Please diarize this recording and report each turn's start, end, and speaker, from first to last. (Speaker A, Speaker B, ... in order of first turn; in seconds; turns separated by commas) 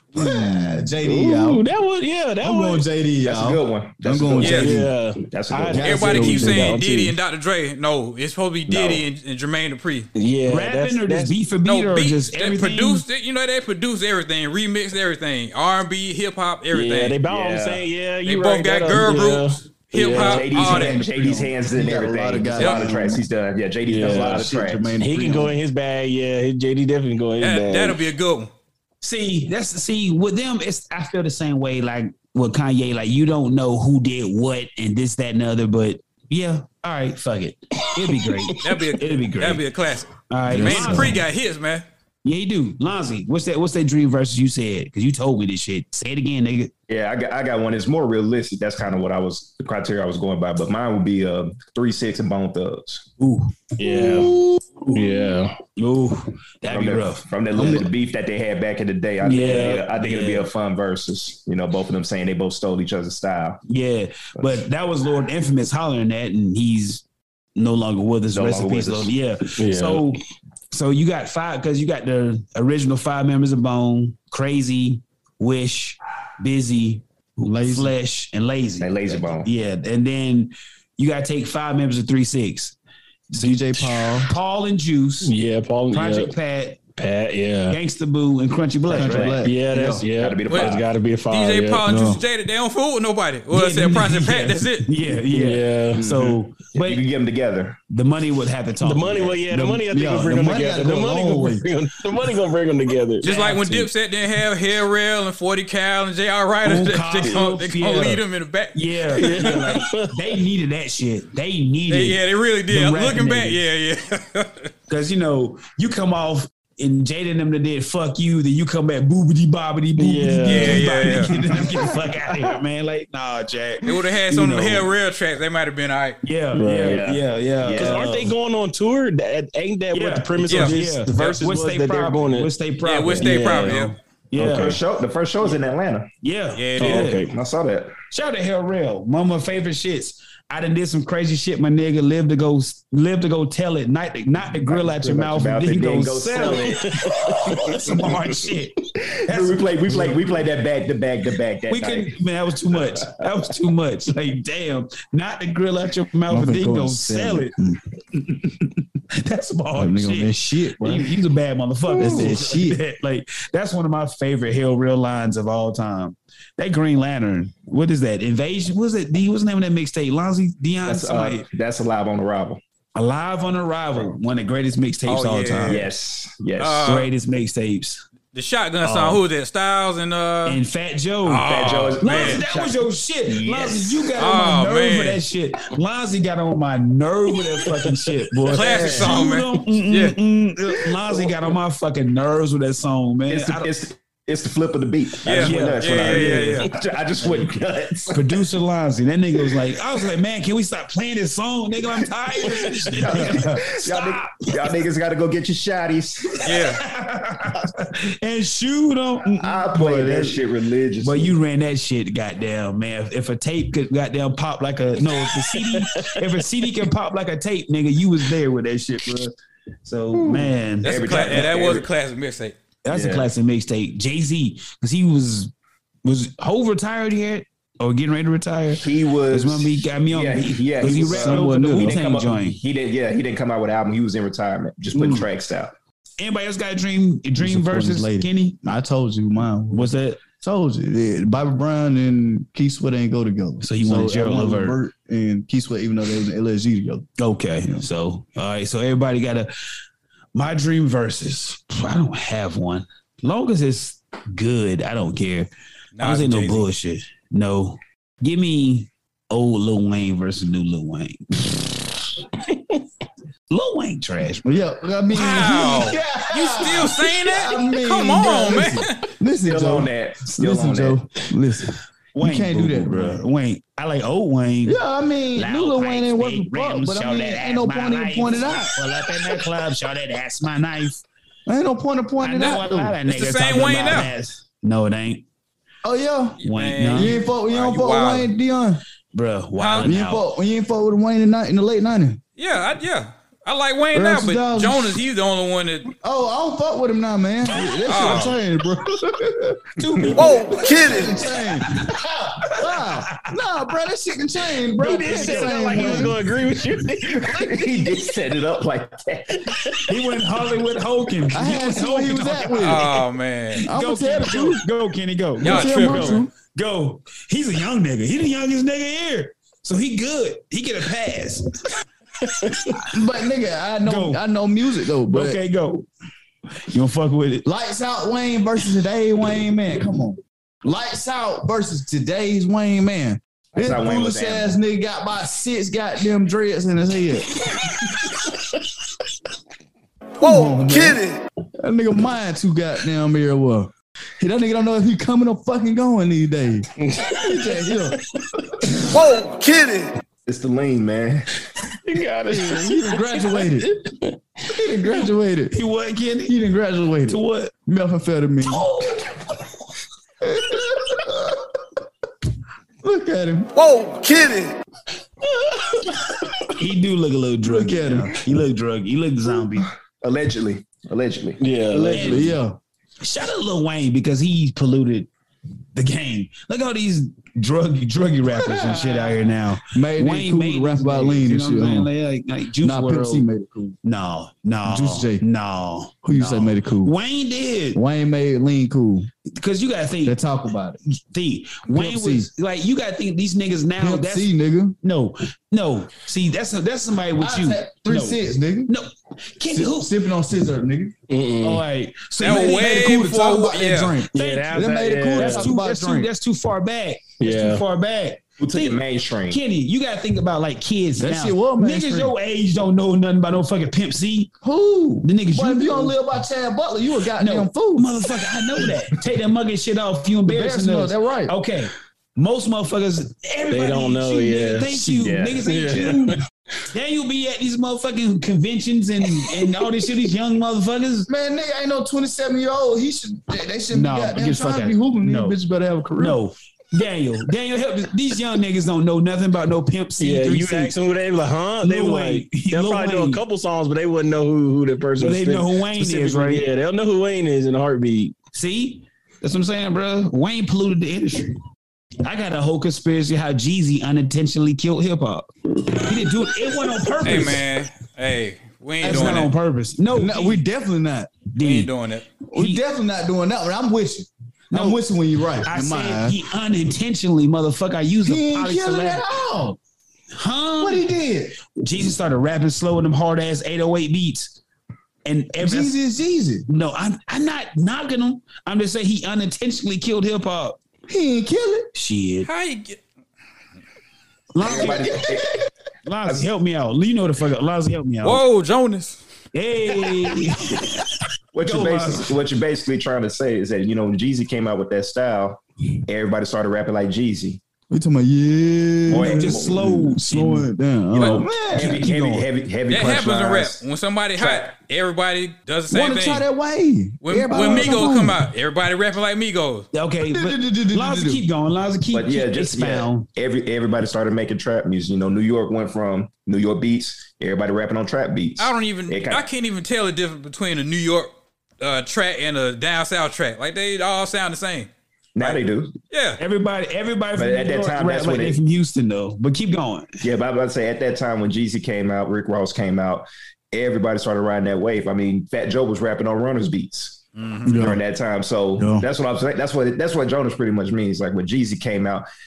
Speaker A: 0.1-1.7, Speaker B: 1.0-2.8, Speaker A: 2.4-4.9, Speaker C: 3.2-6.2, Speaker D: 4.4-4.7, Speaker B: 4.4-7.1, Speaker A: 5.7-6.8, Speaker D: 5.8-10.1, Speaker C: 8.7-9.1, Speaker B: 10.1-11.3, Speaker E: 10.5-13.0, Speaker D: 11.6-17.2, Speaker B: 16.7-20.5, Speaker C: 17.3-17.8, Speaker D: 18.2-21.0, Speaker C: 20.0-25.0, Speaker A: 20.3-23.2, Speaker D: 22.6-22.9, Speaker B: 23.8-24.4, Speaker A: 23.9-25.6, Speaker B: 25.0-28.0, Speaker D: 27.4-28.5, Speaker E: 29.0-39.6, Speaker B: 38.0-38.6, Speaker D: 38.6-41.8, Speaker E: 40.3-41.2, Speaker A: 40.5-41.2, Speaker E: 42.2-46.7, Speaker C: 46.9-53.1, Speaker E: 53.2-53.6, Speaker B: 53.8-54.4, Speaker A: 53.9-54.6, Speaker E: 54.8-57.9, Speaker B: 54.9-55.5, Speaker C: 56.6-63.6, Speaker A: 57.5-57.9, Speaker E: 59.2-60.5, Speaker B: 59.4-59.8, Speaker E: 63.7-67.0, Speaker E: 67.5-82.8, Speaker C: 68.3-69.1, Speaker B: 69.5-70.1, Speaker A: 77.4-77.9, Speaker C: 78.8-79.5, Speaker A: 83.3-84.3, Speaker E: 83.3-85.3, Speaker B: 85.2-86.3, Speaker E: 85.9-86.8, Speaker B: 87.0-87.8, Speaker E: 87.7-89.4, Speaker A: 88.9-90.0, Speaker C: 88.9-89.5, Speaker B: 89.4-91.8, Speaker C: 90.1-90.9, Speaker D: 90.5-90.7, Speaker D: 91.3-94.9, Speaker A: 91.8-92.2, Speaker E: 93.5-97.0, Speaker B: 95.2-96.3, Speaker C: 96.7-97.8, Speaker E: 97.9-99.8, Speaker B: 98.8-103.3, Speaker A: 99.9-101.7, Speaker D: 103.2-109.6, Speaker E: 103.2-103.9, Speaker E: 106.6-108.2, Speaker E: 108.7-113.6, Speaker B: 109.1-110.2, Speaker D: 111.9-114.7, Speaker E: 114.9-124.9, Speaker B: 120.0-121.0, Speaker D: 120.5-121.3, Speaker B: 122.2-122.6, Speaker D: 123.8-126.2, Speaker E: 126.2-128.3, Speaker B: 126.5-127.0, Speaker C: 126.8-128.2, Speaker B: 127.7-132.5, Speaker E: 129.9-134.8, Speaker D: 130.5-130.8, Speaker D: 132.8-133.9, Speaker B: 133.1-133.8, Speaker B: 134.4-134.7, Speaker C: 134.4-136.1, Speaker E: 136.2-137.2, Speaker D: 136.6-137.1, Speaker B: 136.8-137.3, Speaker C: 136.9-137.9, Speaker E: 138.1-150.2, Speaker C: 144.6-147.1, Speaker B: 146.3-148.4, Speaker C: 149.1-152.2, Speaker E: 151.7-157.5, Speaker C: 152.7-153.2, Speaker A: 156.3-158.4, Speaker E: 159.1-171.4, Speaker A: 159.7-161.2, Speaker A: 161.9-162.8, Speaker C: 170.8-172.6, Speaker E: 172.9-175.8, Speaker D: 175.1-175.9, Speaker C: 175.7-177.0, Speaker D: 176.6-177.1, Speaker E: 176.8-178.0, Speaker D: 178.3-180.6, Speaker E: 178.8-179.2, Speaker E: 180.4-181.5, Speaker D: 181.2-182.4, Speaker C: 181.5-184.1, Speaker E: 182.0-193.7, Speaker D: 184.2-185.2, Speaker B: 187.6-188.6, Speaker D: 188.5-190.2, Speaker C: 188.7-189.1, Speaker C: 193.3-198.4, Speaker D: 195.2-196.7, Speaker E: 195.3-196.7, Speaker E: 198.1-204.8, Speaker C: 202.4-206.5, Speaker D: 206.4-206.8, Speaker E: 206.4-210.4, Speaker C: 209.4-211.4, Speaker E: 211.0-219.3, Speaker B: 215.2-216.2, Speaker E: 219.8-221.7, Speaker C: 220.8-221.8, Speaker D: 220.8-222.6, Speaker E: 222.8-225.5, Speaker C: 222.9-223.3, Speaker E: 226.0-232.6, Speaker C: 228.8-235.7, Speaker A: 230.8-232.0, Speaker A: 234.9-235.3, Speaker E: 236.2-238.6, Speaker A: 237.4-247.1, Speaker E: 239.7-240.2, Speaker E: 243.6-244.8, Speaker E: 247.2-249.5, Speaker E: 250.3-255.5, Speaker D: 255.9-256.7, Speaker E: 256.0-261.8, Speaker B: 262.5-262.8, Speaker E: 263.5-264.6, Speaker A: 264.4-273.2, Speaker D: 265.1-269.1, Speaker E: 265.2-265.8, Speaker C: 269.4-271.0, Speaker E: 272.1-274.8, Speaker A: 274.6-278.8, Speaker E: 275.3-281.0, Speaker A: 281.5-283.0, Speaker E: 282.2-285.2, Speaker D: 283.1-284.1, Speaker A: 285.8-288.8, Speaker D: 286.4-288.3, Speaker E: 286.4-287.2, Speaker E: 289.1-290.2, Speaker D: 289.6-289.9, Speaker A: 289.8-292.2, Speaker D: 292.4-295.9, Speaker A: 293.9-295.0, Speaker A: 296.0-300.1, Speaker D: 297.9-298.4, Speaker E: 299.8-303.3, Speaker F: 300.1-301.1, Speaker A: 300.7-306.2, Speaker E: 304.8-306.2, Speaker B: 304.8-307.7, Speaker C: 307.0-309.8, Speaker B: 309.4-309.8, Speaker E: 309.9-313.0, Speaker A: 311.3-312.9, Speaker D: 312.6-313.6, Speaker E: 313.6-321.6, Speaker A: 313.6-314.6, Speaker A: 315.4-316.3, Speaker D: 315.4-316.2, Speaker B: 322.2-322.8, Speaker A: 322.9-325.4, Speaker E: 323.8-324.2, Speaker E: 325.1-325.9, Speaker E: 326.7-327.5, Speaker A: 327.4-337.3, Speaker C: 333.5-334.5, Speaker A: 340.2-341.0, Speaker F: 340.2-341.2, Speaker A: 341.6-348.0, Speaker B: 346.8-348.5, Speaker F: 348.9-349.9, Speaker C: 350.3-351.3, Speaker B: 351.8-354.2, Speaker A: 352.3-353.7, Speaker A: 354.4-355.5, Speaker E: 355.5-356.4, Speaker A: 356.3-358.7, Speaker E: 357.1-357.5, Speaker E: 358.5-359.2, Speaker A: 360.2-361.5, Speaker A: 362.8-363.5, Speaker F: 363.6-364.5, Speaker B: 365.2-366.1, Speaker E: 366.5-369.7, Speaker A: 367.4-368.2, Speaker C: 370.0-371.4, Speaker B: 371.4-372.3, Speaker A: 371.7-372.6, Speaker E: 371.9-372.4, Speaker E: 373.0-375.1, Speaker E: 375.7-383.3, Speaker A: 378.3-381.9, Speaker A: 382.6-383.8, Speaker E: 383.8-387.8, Speaker A: 384.6-385.2, Speaker A: 386.0-386.9, Speaker A: 387.7-389.1, Speaker E: 389.3-390.2, Speaker A: 390.0-390.8, Speaker E: 391.0-399.9, Speaker A: 391.7-392.3, Speaker A: 393.8-394.8, Speaker A: 397.1-398.7, Speaker A: 399.5-400.9, Speaker B: 401.1-401.6, Speaker E: 401.4-402.9, Speaker A: 402.2-406.1, Speaker D: 402.2-404.0, Speaker B: 404.1-405.5, Speaker E: 404.1-414.3, Speaker B: 407.2-407.6, Speaker C: 408.4-409.4, Speaker A: 411.0-412.1, Speaker A: 414.4-417.9, Speaker E: 415.0-415.9, Speaker E: 417.2-431.1, Speaker A: 420.3-421.3, Speaker B: 423.5-424.9, Speaker C: 424.9-426.0, Speaker B: 425.4-426.2, Speaker A: 431.1-436.2, Speaker E: 433.7-435.4, Speaker E: 436.0-440.7, Speaker B: 440.0-448.1, Speaker E: 441.6-443.2, Speaker E: 445.0-446.5, Speaker E: 448.3-451.4, Speaker E: 452.0-457.4, Speaker D: 457.0-459.3, Speaker A: 458.8-459.2, Speaker E: 458.8-460.4, Speaker A: 459.9-461.2, Speaker E: 461.3-461.7, Speaker D: 461.4-462.1, Speaker A: 462.3-466.2, Speaker E: 462.3-462.6, Speaker E: 464.5-464.8, Speaker E: 465.4-469.0, Speaker A: 468.0-469.6, Speaker E: 470.1-470.9, Speaker A: 470.6-471.4, Speaker E: 471.5-474.3, Speaker E: 475.0-475.7, Speaker A: 475.4-476.4, Speaker E: 476.5-480.6, Speaker A: 480.9-481.7, Speaker E: 481.7-482.3, Speaker D: 482.2-482.8, Speaker E: 484.3-484.9, Speaker C: 484.4-485.4, Speaker A: 484.6-485.4, Speaker E: 485.9-488.2, Speaker D: 488.0-489.0, Speaker E: 489.3-492.1, Speaker C: 491.3-497.4, Speaker A: 497.7-501.9, Speaker C: 498.9-499.6, Speaker E: 498.9-500.5, Speaker D: 500.9-501.2, Speaker C: 500.9-503.6, Speaker E: 501.4-502.3, Speaker D: 502.7-506.3, Speaker C: 504.2-504.5, Speaker A: 505.7-508.2, Speaker D: 507.0-509.7, Speaker C: 507.3-507.8, Speaker E: 509.7-513.1, Speaker A: 510.0-511.2, Speaker C: 511.9-519.3, Speaker D: 518.4-526.2, Speaker C: 525.1-525.7, Speaker E: 526.2-530.0, Speaker C: 527.1-528.4, Speaker C: 530.0-542.0, Speaker D: 537.1-537.5, Speaker A: 537.4-537.8, Speaker A: 538.6-538.9